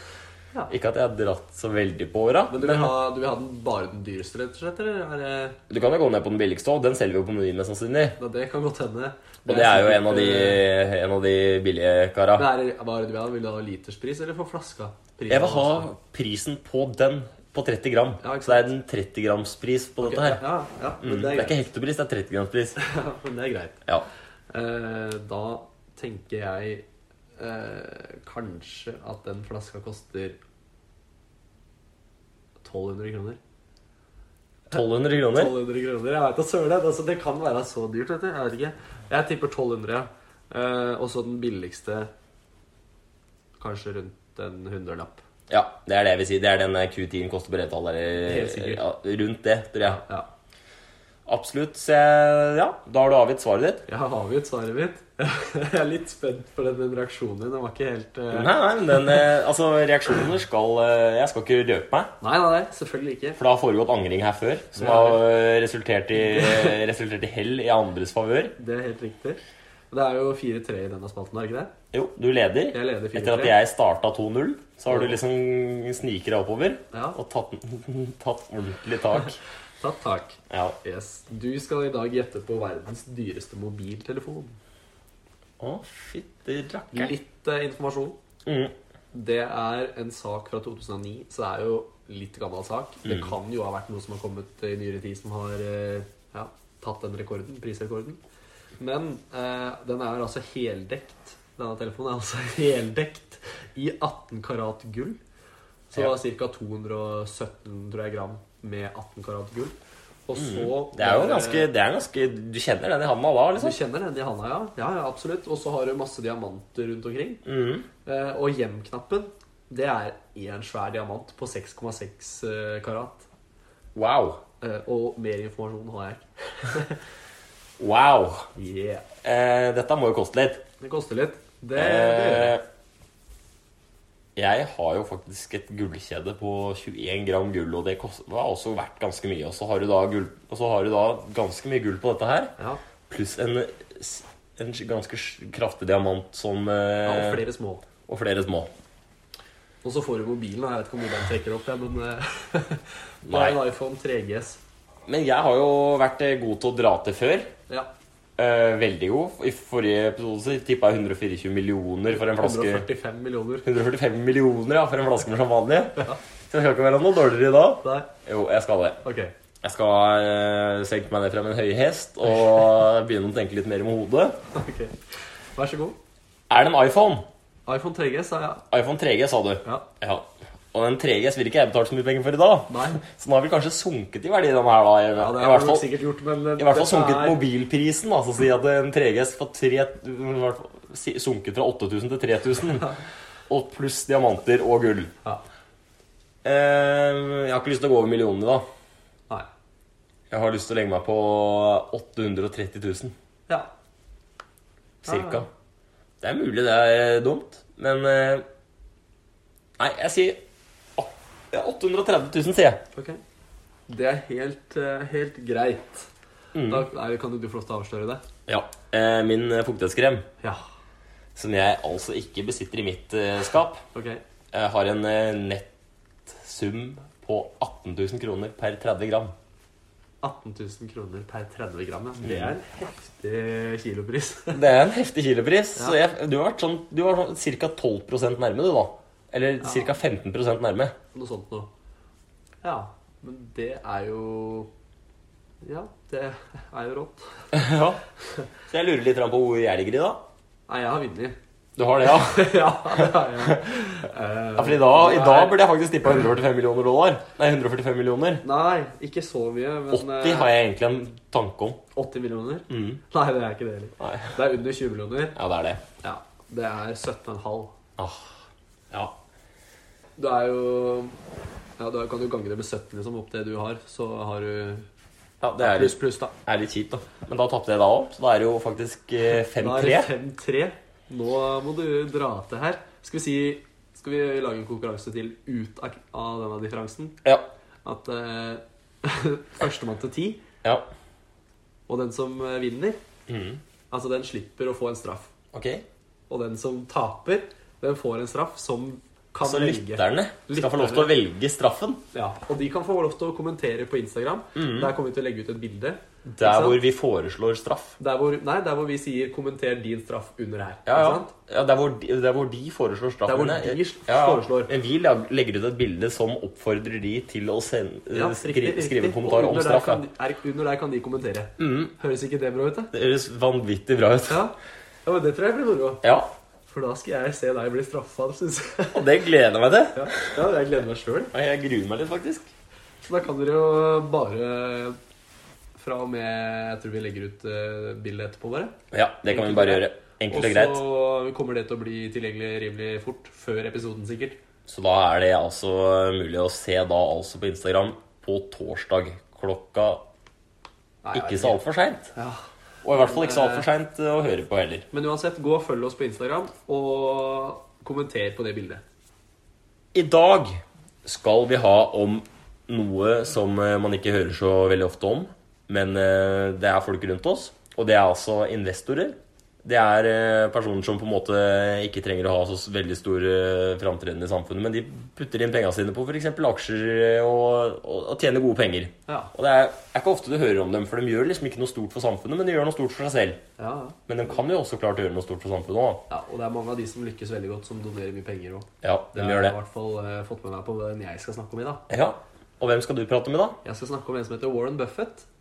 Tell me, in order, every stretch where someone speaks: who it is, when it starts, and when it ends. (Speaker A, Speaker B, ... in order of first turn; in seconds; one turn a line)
Speaker A: 0.7-2.9
Speaker B: 2.5-5.6
Speaker A: 5.7-8.2
Speaker B: 8.2-10.7
Speaker A: 9.5-12.5
Speaker B: 12.4-15.9
Speaker A: 15.3-20.4
Speaker B: 18.2-18.7
Speaker B: 20.0-21.6
Speaker A: 21.0-22.8
Speaker B: 22.8-23.8
Speaker B: 24.5-30.4
Speaker B: 32.6-33.4
Speaker A: 34.7-35.6
Speaker B: 35.3-42.1
Speaker B: 43.6-45.2
Speaker A: 45.5-50.0
Speaker B: 48.2-48.9
Speaker B: 49.8-50.3
Speaker A: 51.3-53.9
Speaker B: 53.9-59.3
Speaker A: 58.3-62.1
Speaker B: 62.2-63.4
Speaker A: 63.4-68.6
Speaker B: 64.8-65.2
Speaker B: 66.2-66.8
Speaker B: 68.6-71.7
Speaker A: 71.9-79.4
Speaker B: 72.7-73.6
Speaker B: 74.9-75.2
Speaker B: 76.9-77.2
Speaker B: 79.8-84.6
Speaker A: 80.5-80.8
Speaker A: 85.6-87.2
Speaker B: 86.9-88.2
Speaker A: 88.5-88.7
Speaker B: 89.1-98.2
Speaker A: 93.0-93.3
Speaker B: 98.8-105.2
Speaker B: 105.9-109.8
Speaker B: 110.3-111.7
Speaker A: 110.4-113.8
Speaker B: 113.6-117.4
Speaker A: 117.5-117.9
Speaker B: 118.0-123.3
Speaker A: 124.0-124.4
Speaker B: 124.6-127.0
Speaker A: 127.8-128.5
Speaker B: 128.6-129.1
Speaker A: 129.2-130.7
Speaker B: 130.8-132.6
Speaker A: 131.8-132.6
Speaker A: 134.4-142.5
Speaker A: 143.1-147.4
Speaker B: 147.1-147.8
Speaker A: 148.1-148.7
Speaker B: 149.8-154.6
Speaker A: 153.3-153.6
Speaker A: 155.1-157.5
Speaker A: 158.4-162.9
Speaker B: 162.1-163.7
Speaker A: 163.7-169.0
Speaker B: 167.8-168.1
Speaker B: 169.0-169.3
Speaker A: 169.6-174.4
Speaker B: 174.5-176.0
Speaker A: 176.5-177.2
Speaker B: 177.7-178.7
Speaker A: 178.7-185.9
Speaker B: 182.7-183.0
Speaker B: 185.2-187.4
Speaker A: 186.6-193.0
Speaker A: 193.5-195.1
Speaker A: 196.4-198.7
Speaker A: 200.3-203.1
Speaker A: 205.0-205.5
Speaker B: 205.1-205.4
Speaker A: 206.2-208.4
Speaker A: 209.8-210.4
Speaker A: 211.0-212.8
Speaker B: 212.9-213.2
Speaker B: 213.9-216.1
Speaker A: 216.5-216.8
Speaker B: 216.7-218.2
Speaker A: 218.5-220.3
Speaker A: 221.3-223.8
Speaker B: 223.9-224.2
Speaker A: 224.5-225.7
Speaker A: 226.3-229.3
Speaker B: 230.2-234.6
Speaker A: 232.2-232.6
Speaker A: 234.5-240.9
Speaker B: 239.6-240.0
Speaker B: 241.1-241.7
Speaker B: 242.6-244.7
Speaker B: 245.6-247.5
Speaker A: 247.5-248.0
Speaker A: 248.7-250.2
Speaker B: 250.7-251.4
Speaker A: 251.8-254.0
Speaker B: 252.0-255.6
Speaker A: 254.6-258.4
Speaker B: 258.4-260.5
Speaker A: 259.9-261.8
Speaker B: 261.9-265.4
Speaker A: 262.7-263.0
Speaker A: 264.0-264.4
Speaker A: 265.4-265.8
Speaker B: 266.0-267.7
Speaker A: 268.0-268.4
Speaker B: 270.2-271.1
Speaker B: 271.8-274.9
Speaker A: 275.4-280.1
Speaker B: 275.6-276.3
Speaker B: 279.6-287.2
Speaker B: 287.8-290.4
Speaker B: 291.9-293.0
Speaker A: 293.3-293.6
Speaker B: 293.9-295.3
Speaker A: 295.5-295.8
Speaker B: 296.3-301.1
Speaker A: 299.4-302.0
Speaker B: 302.1-306.8
Speaker A: 304.6-304.9
Speaker A: 306.4-308.0
Speaker B: 308.0-311.3
Speaker A: 310.9-320.0
Speaker B: 313.3-314.7
Speaker B: 318.1-322.9
Speaker A: 321.6-321.9
Speaker A: 322.9-324.4
Speaker B: 324.3-326.0
Speaker A: 326.0-326.3
Speaker B: 326.7-329.1
Speaker A: 328.9-330.4
Speaker B: 329.9-331.3
Speaker A: 331.3-332.5
Speaker B: 333.0-335.0
Speaker B: 335.8-338.8
Speaker A: 338.9-340.8
Speaker B: 339.3-344.4
Speaker A: 344.7-350.1
Speaker B: 351.0-351.6
Speaker A: 351.1-352.1
Speaker B: 352.1-353.7
Speaker A: 352.8-354.9
Speaker B: 354.9-358.8
Speaker A: 359.9-383.4
Speaker B: 379.1-379.3
Speaker B: 383.6-384.0
Speaker A: 384.1-386.1
Speaker B: 386.1-391.8
Speaker A: 388.8-389.6
Speaker A: 391.9-393.6
Speaker B: 393.6-395.3